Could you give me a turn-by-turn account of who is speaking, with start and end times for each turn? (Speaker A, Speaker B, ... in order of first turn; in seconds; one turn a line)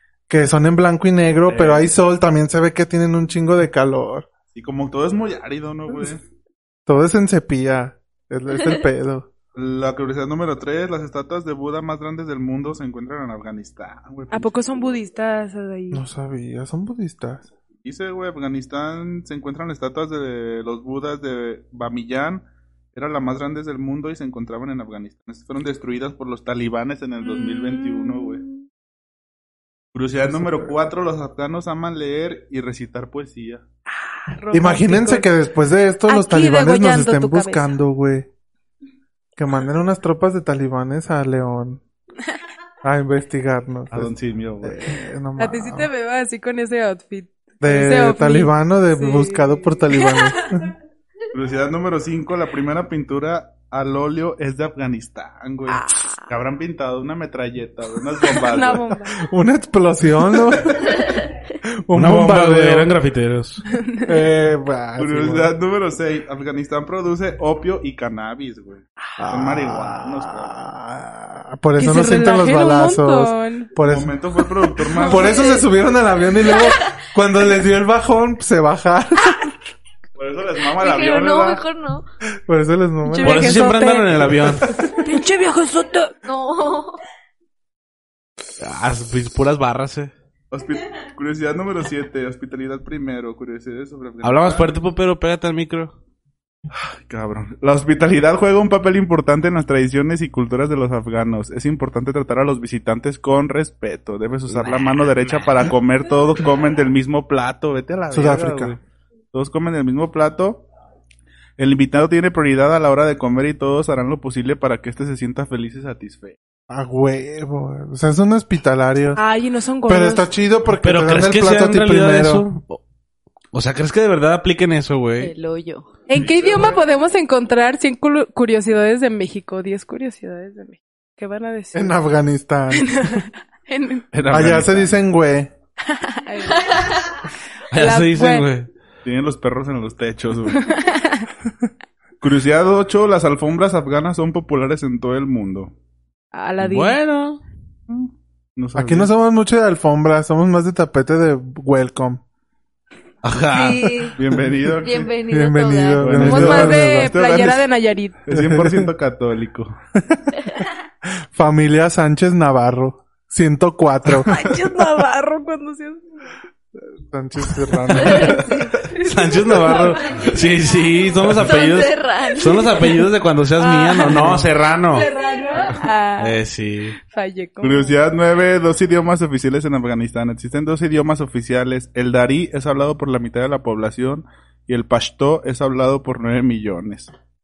Speaker A: 0.3-4.3
Speaker B: 1.5-1.9
Speaker B: 4.5-6.2
Speaker A: 6.9-9.3
Speaker B: 9.5-14.6
Speaker C: 14.3-16.0
Speaker A: 15.9-17.5
Speaker B: 17.8-28.4
Speaker C: 27.2-28.6
Speaker B: 29.9-33.6
Speaker A: 30.2-30.8
Speaker C: 33.9-35.3
Speaker A: 34.5-38.3
Speaker C: 36.1-37.7
Speaker A: 39.4-41.8
Speaker A: 42.8-45.9
Speaker B: 43.9-44.8
Speaker C: 45.4-50.7
Speaker A: 47.6-50.7
Speaker B: 51.3-58.9
Speaker C: 55.7-56.3
Speaker C: 58.3-59.2
Speaker A: 59.2-61.0
Speaker A: 61.9-62.9
Speaker D: 61.9-63.6
Speaker C: 63.7-64.2
Speaker A: 64.0-65.5
Speaker B: 65.0-70.5
Speaker A: 69.2-74.1
Speaker C: 71.8-73.7
Speaker B: 73.8-75.6
Speaker C: 74.9-75.6
Speaker A: 75.0-79.5
Speaker B: 80.2-81.6
Speaker E: 80.7-82.0
Speaker A: 82.5-83.6
Speaker C: 83.0-86.1
Speaker D: 83.2-84.8
Speaker A: 84.4-84.8
Speaker E: 86.2-87.0
Speaker D: 88.6-90.1
Speaker B: 90.5-94.7
Speaker D: 94.2-95.9
Speaker B: 97.0-108.8
Speaker D: 104.5-105.5
Speaker A: 108.1-108.8
Speaker B: 109.3-110.6
Speaker B: 111.6-116.3
Speaker A: 116.7-119.2
Speaker C: 119.1-120.3
Speaker A: 119.8-122.5
Speaker D: 120.8-122.8
Speaker D: 123.5-125.3
Speaker E: 125.2-125.9
Speaker C: 126.1-131.9
Speaker B: 126.2-126.7
Speaker A: 131.7-133.1
Speaker C: 132.7-134.1
Speaker B: 134.2-134.7
Speaker A: 134.3-135.5
Speaker C: 135.9-138.5
Speaker D: 137.7-138.7
Speaker B: 139.0-140.7
Speaker C: 140.5-141.3
Speaker B: 142.2-145.7
Speaker C: 146.3-147.0
Speaker D: 146.6-147.4
Speaker B: 147.9-149.1
Speaker A: 148.8-152.2
Speaker D: 153.2-154.1
Speaker E: 153.5-154.2
Speaker B: 154.2-155.1
Speaker E: 154.8-156.2
Speaker A: 155.3-157.2
Speaker B: 156.0-157.7
Speaker C: 156.2-158.2
Speaker B: 158.2-159.8
Speaker A: 158.3-158.9
Speaker A: 160.0-160.2
Speaker A: 161.3-164.3
Speaker C: 164.2-166.0
Speaker A: 167.0-168.5
Speaker B: 167.9-168.5
Speaker C: 168.8-169.9
Speaker D: 169.0-175.1
Speaker E: 169.8-170.2
Speaker E: 171.3-173.1
Speaker C: 173.6-176.4
Speaker A: 174.1-174.5
Speaker D: 176.2-176.9
Speaker C: 177.0-178.0
Speaker B: 177.6-187.1